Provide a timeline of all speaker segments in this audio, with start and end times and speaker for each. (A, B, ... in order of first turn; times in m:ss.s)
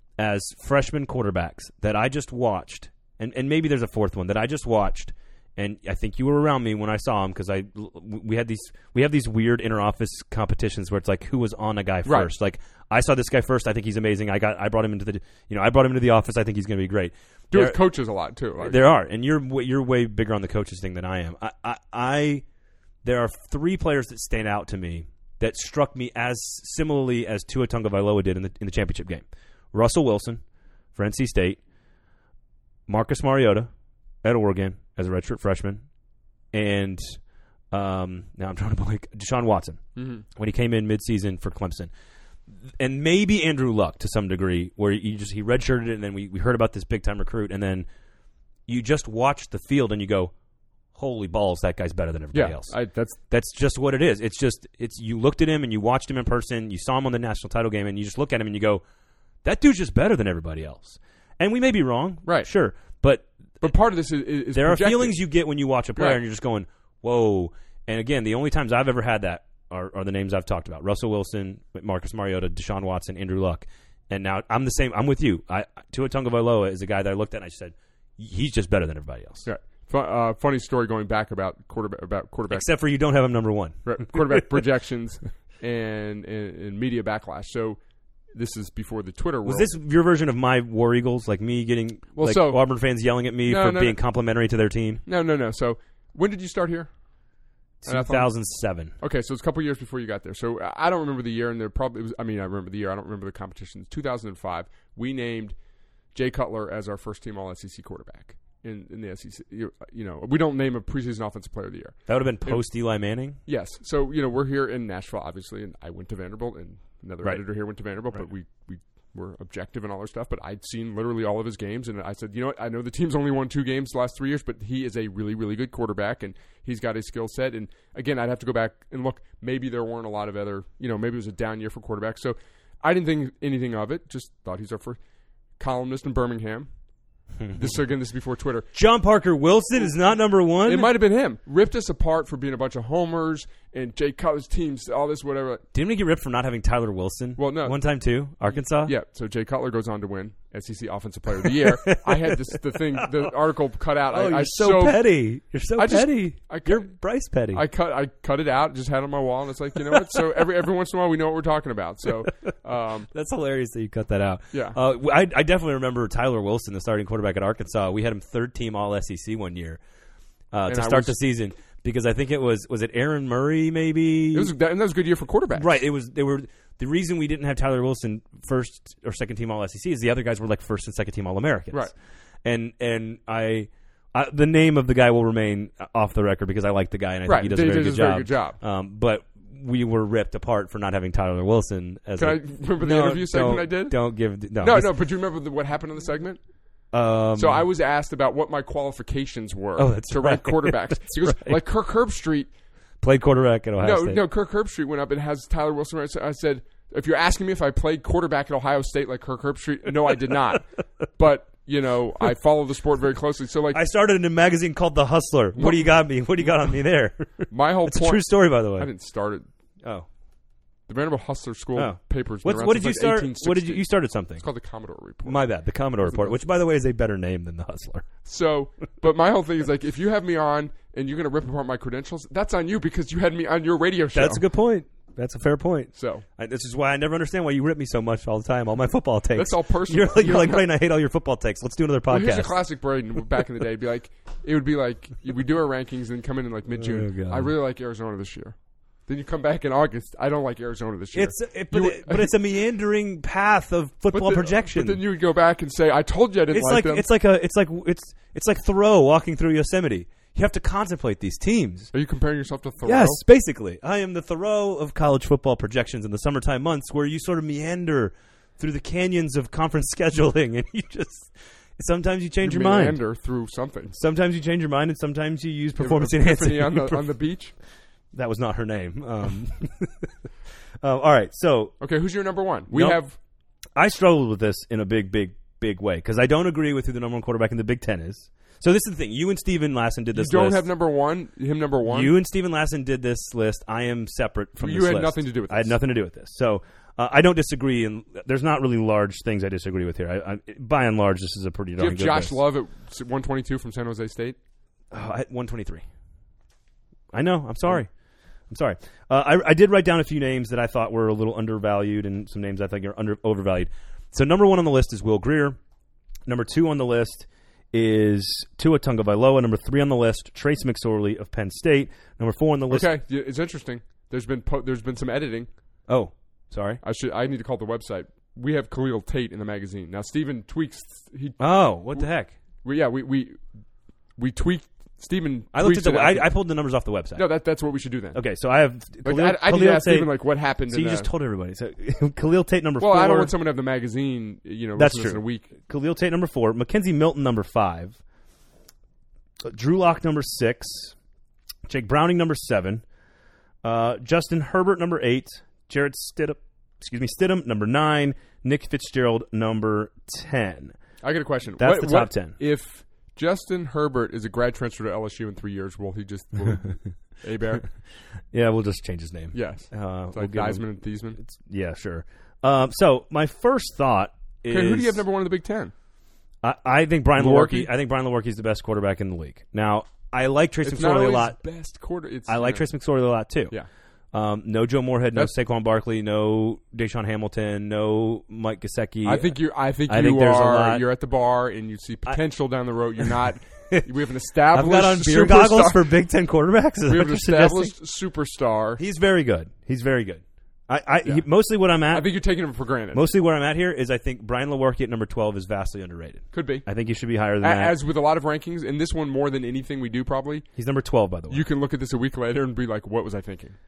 0:00.2-0:17.8 A
0:12.0-0:12.3 B
0:17.5-0:18.8 B
0:18.6-0:22.4 A
0:23.0-0:30.4 A
0:30.9-0:31.6 A
0:32.9-0:33.7 A
0:34.2-0:35.8 A
0:36.5-0:37.2 A
0:37.7-0:41.9 A
0:40.0-0:40.2 B
0:42.8-0:47.9 A
0:48.7-0:50.3 A
0:50.9-0:52.7 A
0:52.3-0:53.2 B
0:53.3-0:58.8 A
0:59.4-1:03.7 A
1:03.6-1:05.2 B
1:04.5-1:19.5 A
1:19.4-1:22.6 B
1:22.5-1:24.5 A
1:23.8-1:27.8 B
1:28.3-1:29.7 B
1:29.4-1:35.0 A
1:32.2-1:32.6 B
1:33.4-1:34.0 B
1:35.0-1:36.9 B
1:37.8-1:38.9 A
1:37.9-1:38.3 B
1:39.0-1:45.5 B
1:46.1-1:52.6 B
1:52.1-1:53.4 A
1:53.4-2:15.0 B
2:15.6-2:16.7 B
2:17.4-2:17.7 A
2:17.5-2:18.7 B
2:18.7-2:20.9 A
2:20.6-2:25.6 B
2:25.7-2:28.9 A
2:27.4-2:27.8 B
2:28.8-2:35.0 B
2:31.4-2:33.3 A
2:34.1-2:37.6 A
2:35.8-2:36.9 B
2:37.5-2:43.1 B
2:43.1-2:49.8 A
2:44.5-2:44.8 B
2:50.5-2:54.5 A
2:50.7-2:51.2 B
2:54.3-2:55.8 B
2:55.5-3:01.9 A
3:02.4-3:14.9 A
3:07.2-3:08.6 B
3:12.2-3:14.0 B
3:14.6-3:16.4 B
3:16.9-3:17.6 A
3:17.4-3:22.5 B
3:19.8-3:21.6 A
3:23.0-3:24.2 A
3:23.8-3:33.8 B
3:33.7-3:38.9 A
3:35.6-3:35.9 B
3:37.5-3:39.5 B
3:40.9-3:43.8 B
3:41.8-3:44.4 A
3:44.4-3:45.4 B
3:45.2-3:48.0 A
3:46.0-3:46.4 B
3:48.2-3:54.4 B
3:54.1-4:02.6 A
3:55.9-3:56.2 B
3:59.3-4:00.6 B
4:02.1-4:08.6 B
4:06.8-4:07.5 A
4:09.1-4:12.3 B
4:11.1-4:15.0 A
4:14.1-4:17.0 B
4:16.5-4:21.9 A
4:21.9-4:23.2 B
4:22.8-4:33.0 A
4:32.4-4:34.0 B
4:33.9-4:37.1 A
4:35.8-4:37.5 B
4:38.1-4:40.1 A
4:40.8-4:41.7 A
4:41.8-4:43.2 B
4:42.7-4:43.0 A
4:43.8-4:50.7 A
4:50.1-4:52.1 B
4:51.9-5:02.4 A
4:54.6-4:55.8 B
5:01.8-5:04.4 B
5:04.9-5:05.8 A
5:07.1-5:07.9 A
5:08.5-5:15.6 A
5:16.3-5:22.9 A
5:22.7-5:25.5 B
5:25.9-5:26.8 A
5:26.8-5:31.4 B
5:31.4-5:32.4 A
5:32.6-5:33.4 B
5:34.2-5:36.3 B
5:35.5-5:37.2 A
5:37.2-5:38.2 B
5:38.1-5:40.1 A
5:39.0-5:41.1 B
5:40.7-5:43.3 A
5:42.8-5:45.5 B
5:44.8-5:48.0 A
5:49.4-5:50.9 A
5:51.7-5:52.8 A
5:53.6-6:00.8 A
6:01.0-6:07.7 B
6:01.6-6:02.4 A
6:08.3-6:10.6 A
6:09.3-6:11.2 B
6:11.2-6:15.0 A
6:14.5-6:15.7 B
6:16.4-6:21.4 A
6:17.2-6:17.7 B
6:20.6-6:22.6 B
6:22.3-6:23.6 A
6:24.1-6:29.3 A
6:29.0-6:35.9 B
6:29.9-6:30.8 A
6:34.5-6:37.7 A
6:36.9-6:38.8 B
6:38.8-6:42.1 A
6:41.9-6:43.1 B
6:42.9-6:47.7 A
6:46.3-6:46.6 B
6:47.4-6:50.5 B
6:50.6-6:51.4 A
6:51.3-6:53.6 B